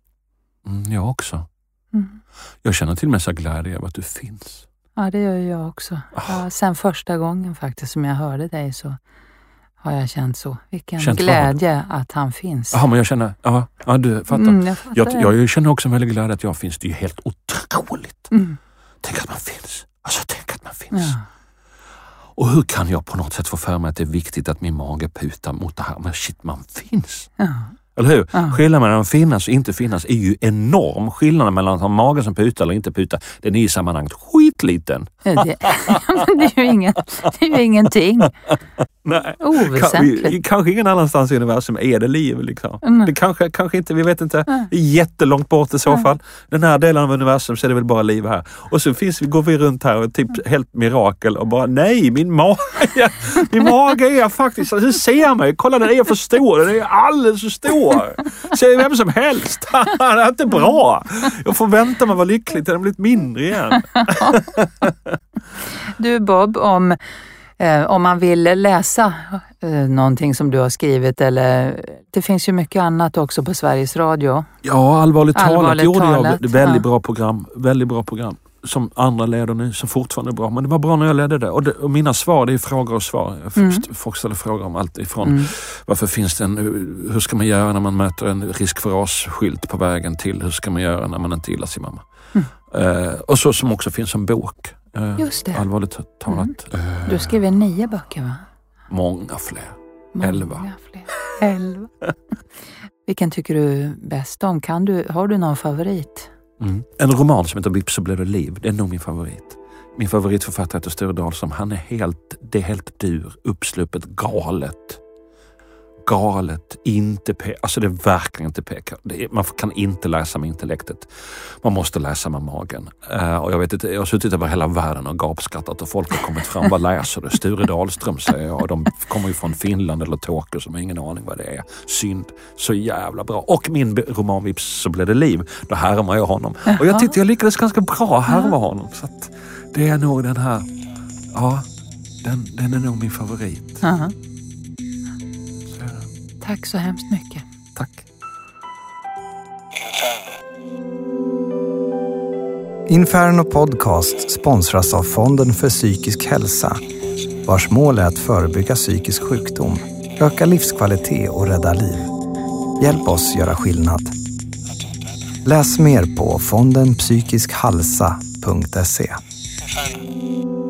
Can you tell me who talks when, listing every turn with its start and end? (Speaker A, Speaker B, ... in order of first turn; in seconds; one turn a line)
Speaker A: 0.6-1.5
Speaker B: 1.9-2.2
Speaker A: 2.6-4.7
Speaker B: 5.0-9.0
Speaker A: 6.1-6.4
Speaker B: 9.8-12.8
Speaker A: 11.0-11.6
Speaker A: 12.7-18.3
Speaker B: 14.3-15.3
Speaker B: 18.3-18.6
Speaker A: 19.0-21.1
Speaker B: 20.9-21.2
Speaker A: 22.3-27.3
Speaker B: 27.4-27.7
Speaker A: 27.9-36.2
Speaker B: 28.3-28.6
Speaker B: 35.2-38.3
Speaker A: 38.2-65.2
Speaker B: 39.4-40.4
Speaker B: 42.8-43.1
Speaker B: 64.0-64.4
Speaker B: 65.8-74.5
Speaker A: 74.6-92.0
Speaker B: 75.3-76.8
Speaker B: 83.5-83.8
Speaker B: 85.2-85.5
Speaker A: 92.6-97.4
Speaker B: 95.2-95.6
Speaker B: 96.3-98.4
Speaker A: 98.9-100.7
Speaker B: 100.1-101.9
Speaker B: 103.0-106.3
Speaker A: 106.6-115.0
Speaker A: 116.0-140.7
Speaker B: 136.7-137.1
Speaker B: 138.3-138.5
Speaker A: 141.3-141.7
Speaker A: 142.2-143.8
Speaker B: 143.8-144.1
Speaker A: 145.7-146.1
Speaker B: 146.4-147.4
Speaker A: 147.8-148.0
Speaker C: 152.9-156.8
Speaker C: 157.4-162.1
Speaker C: 162.8-164.1
Speaker C: 165.4-169.2